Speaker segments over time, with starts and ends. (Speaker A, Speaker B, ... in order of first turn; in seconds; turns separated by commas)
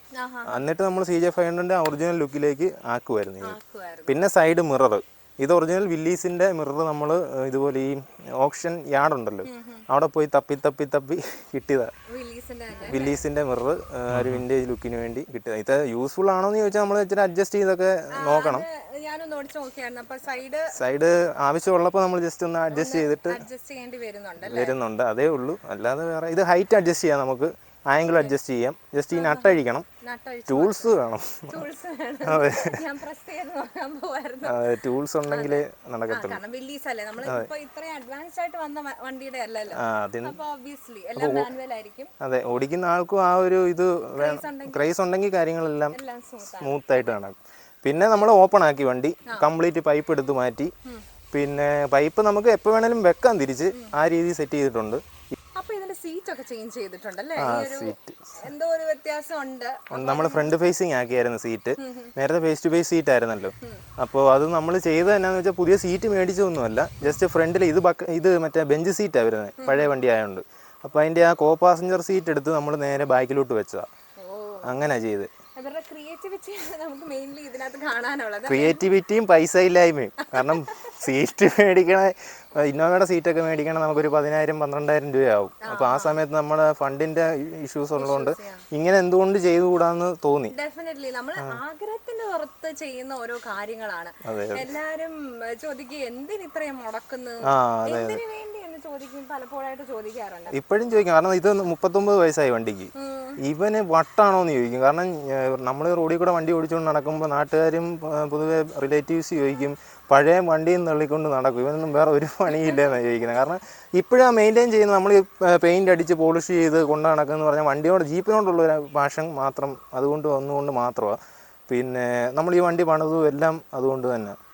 Speaker A: 0.2-0.6, Speaker B: 0.5-11.9, Speaker A: 3.4-4.2, Speaker A: 9.4-9.8, Speaker A: 12.1-13.2, Speaker B: 12.8-18.7, Speaker A: 18.2-20.8, Speaker B: 20.7-23.4, Speaker A: 22.7-24.8, Speaker B: 24.4-29.9, Speaker A: 28.1-28.3, Speaker A: 29.1-30.9, Speaker B: 30.5-31.7, Speaker A: 31.5-34.6, Speaker B: 32.3-32.8, Speaker B: 34.5-36.4, Speaker A: 35.3-42.1, Speaker B: 39.8-40.4, Speaker B: 41.2-41.5, Speaker B: 42.2-46.0, Speaker A: 44.1-44.8, Speaker A: 45.9-47.1, Speaker B: 46.6-50.7, Speaker B: 51.3-55.0, Speaker A: 55.6-60.5, Speaker B: 57.4-58.4, Speaker B: 59.9-73.9, Speaker A: 61.8-62.1, Speaker A: 69.6-69.9, Speaker A: 74.2-74.8, Speaker B: 74.6-75.3, Speaker A: 75.6-78.8, Speaker B: 78.5-90.5, Speaker A: 80.2-81.0, Speaker A: 85.6-86.2, Speaker A: 88.0-88.7, Speaker A: 90.5-100.6, Speaker B: 94.2-94.7, Speaker B: 97.5-98.2, Speaker B: 100.5-121.2, Speaker A: 103.0-103.4, Speaker B: 121.7-124.4